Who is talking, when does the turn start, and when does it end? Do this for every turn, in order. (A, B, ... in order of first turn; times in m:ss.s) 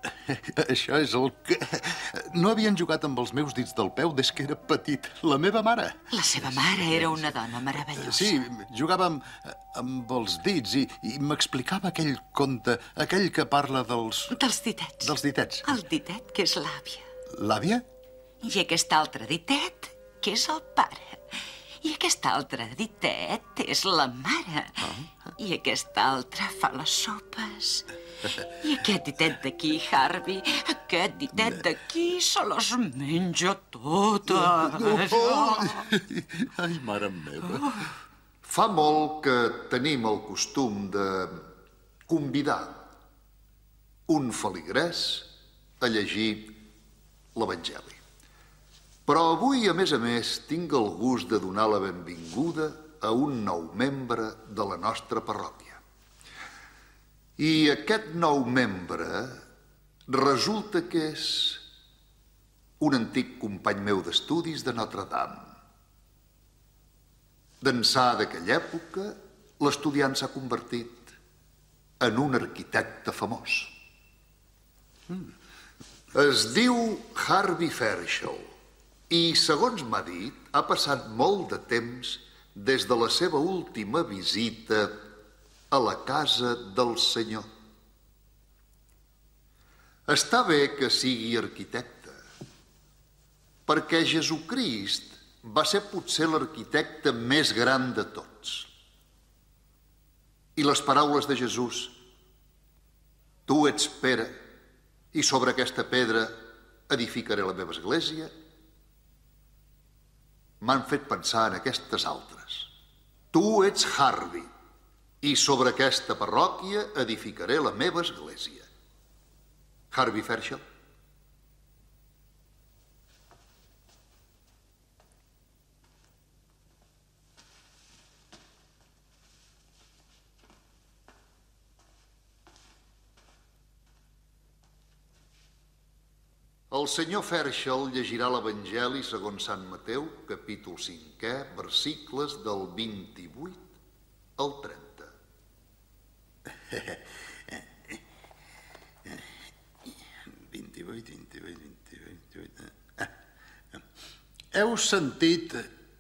0:00.2-0:14.3 A
0:06.1-0:08.4 B
0:14.3-0:17.0 B
0:15.0-0:15.8 A
0:17.3-0:17.8 A
0:18.4-0:27.9 B
0:24.8-0:25.1 A
0:28.6-0:35.8 B
0:31.4-0:31.6 A
0:34.3-0:37.8 A
0:37.4-0:37.8 B
0:38.4-0:41.4 C
0:42.1-0:42.8 C
0:44.1-0:45.3 C
0:45.8-0:46.6 C
0:47.3-0:48.0 C
0:49.1-0:55.8 C
0:57.4-0:59.4 C
1:00.1-1:01.6 C
1:02.8-1:05.6 C
1:07.6-1:11.1 C
1:12.0-1:13.7 C
1:16.1-1:18.5 C
1:19.1-1:25.1 C
1:25.7-1:27.5 C
1:30.1-1:32.2 C
1:33.7-1:38.7 C
1:40.6-1:42.0 C
1:43.5-1:44.5 C
1:45.1-1:48.3 C
1:50.6-1:52.7 C
1:53.3-1:54.5 C
1:55.2-1:58.7 C
1:59.9-2:00.6 C
2:16.7-2:23.6 C
2:24.4-2:25.1 C
2:26.7-2:28.0 A
2:30.3-2:33.1 A
2:34.5-2:35.7 A